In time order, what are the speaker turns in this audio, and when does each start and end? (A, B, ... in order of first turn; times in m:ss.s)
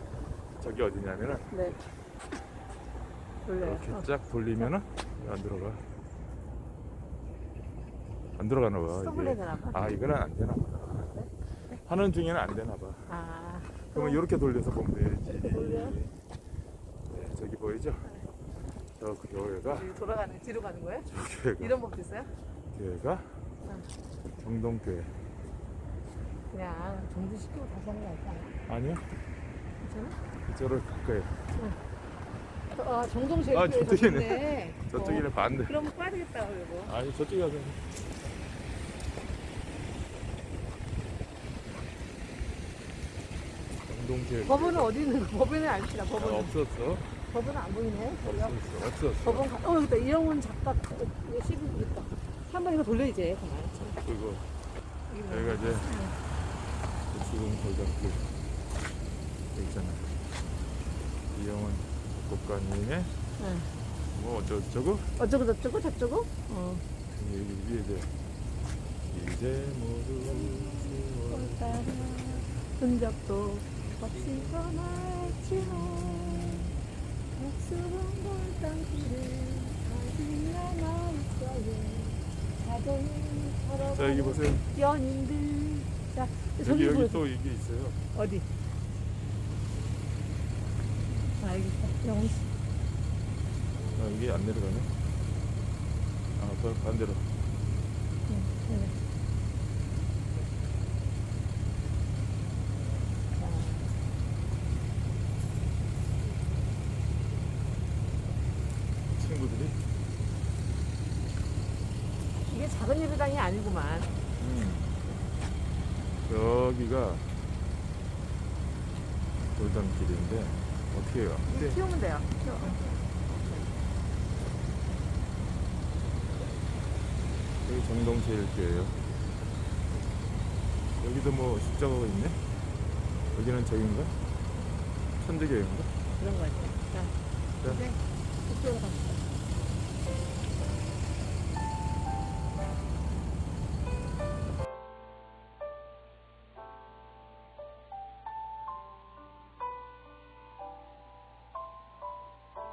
0:00.6-0:01.5 A
0:01.5-0:01.8 B
0:03.4-0:04.0 B
0:03.6-0:05.8 A
0:08.4-0:11.1 A
0:08.9-0:09.8 B
0:11.7-0:13.1 A
0:13.1-0:14.2 B
0:13.8-0:16.1 A
0:15.3-0:16.0 B
0:17.1-0:18.1 A
0:19.0-0:19.9 A
0:19.7-0:22.3 B
0:21.1-0:21.7 A
0:22.7-0:23.4 A
0:24.4-0:25.2 A
0:26.5-0:28.5 B
0:28.7-0:29.1 A
0:29.8-0:30.2 B
0:30.5-0:31.4 A
0:32.7-0:36.9 B
0:33.5-0:35.7 A
0:36.9-0:37.8 A
0:43.8-0:44.9 A
0:44.4-0:46.6 B
0:46.2-0:47.1 A
0:47.3-0:48.6 B
0:48.2-0:49.5 A
0:49.2-0:54.0 B
0:53.8-0:54.5 A
0:55.1-0:56.2 B
0:55.3-0:55.9 A
0:57.1-0:58.3 A
0:59.5-1:00.1 A
1:01.3-1:03.1 A
1:03.4-1:03.7 B
1:04.1-1:05.1 A
1:05.2-1:06.8 B
1:07.1-1:08.1 A
1:09.1-1:12.3 A
1:10.2-1:16.7 B
1:17.3-1:27.2 B
1:23.8-1:24.6 A
1:26.6-1:28.0 A
1:28.1-1:28.5 B
1:31.3-1:32.5 B
1:34.0-1:34.9 A
1:36.4-1:37.3 A
1:38.3-1:38.9 B
1:43.4-1:43.9 B
1:49.1-1:49.8 A
1:52.5-1:54.1 B
1:54.4-1:54.9 A
1:56.2-1:57.3 A
1:59.5-2:01.8 A
2:01.5-2:03.0 B
2:07.6-2:09.0 A
2:11.0-2:12.4 A
2:13.3-2:14.2 A
2:15.2-2:15.9 A
2:16.2-2:19.2 B
2:17.6-2:17.9 A